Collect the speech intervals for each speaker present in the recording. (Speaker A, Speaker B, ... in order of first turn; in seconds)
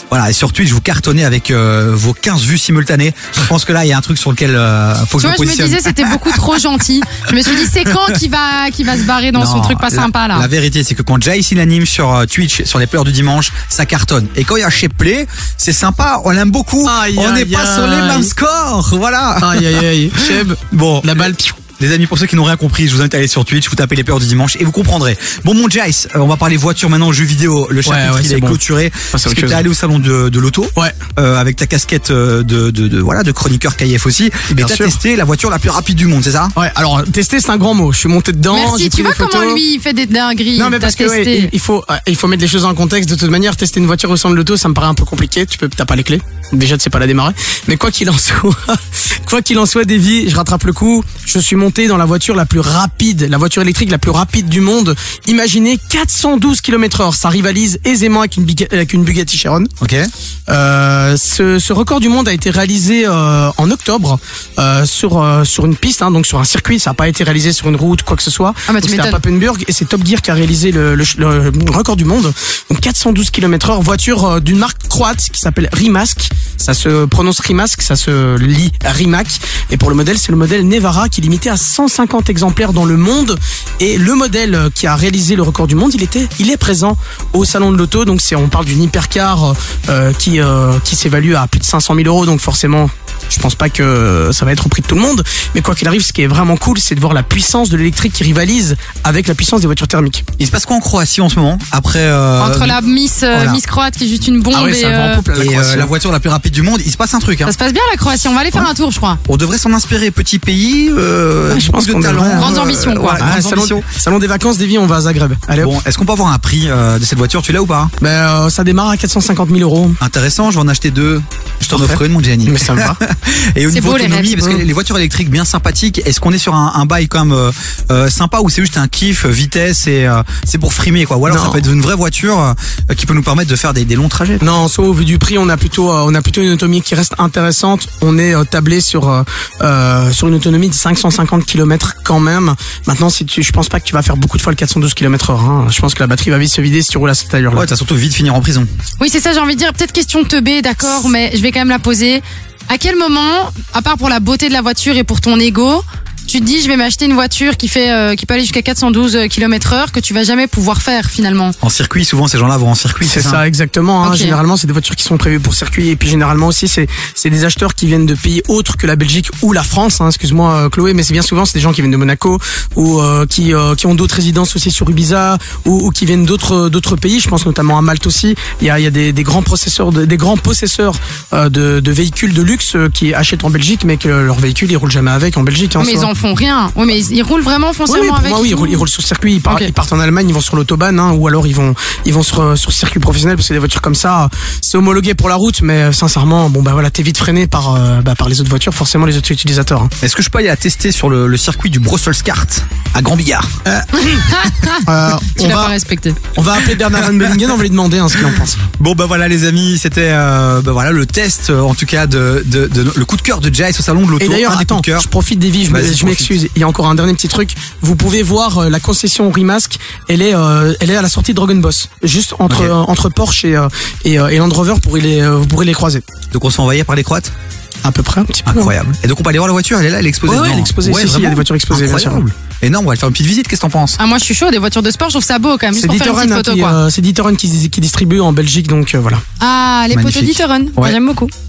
Speaker A: 0.1-6.4, 9.3-36.5, 59.8-60.1, 100.4-102.8, 103.3-103.6, 105.3-107.5, 109.3-113.8, 115.6-117.9, 120.0-134.4, 147.5-148.7, 161.6-163.4, 200.0-203.5, 208.7-215.1, 215.7-216.4, 222.5-222.7, 226.3-227.3, 228.4-234.0, 239.9-240.9
Speaker B: 5.2-10.5, 38.5-41.5, 68.7-69.2, 102.4-105.2, 107.4-109.2, 112.3-113.3, 123.7-124.6, 149.0-161.5, 164.0-164.4, 185.8-188.8, 204.0-206.2, 234.0-236.8, 239.4-241.3
Speaker C: 16.8-18.3, 19.4-21.6, 27.8-28.6, 29.1-29.6, 34.5-34.9, 36.5-39.6, 40.5-59.7, 60.5-100.2, 104.5-105.9, 111.5-115.8, 118.0-120.0, 121.7-123.0, 131.3-131.7, 134.4-147.7, 163.0-186.1, 187.9-199.9, 203.7-204.2, 204.8-205.8, 206.3-208.6, 214.2-226.0, 227.8-228.7, 230.2-232.2, 235.8-239.2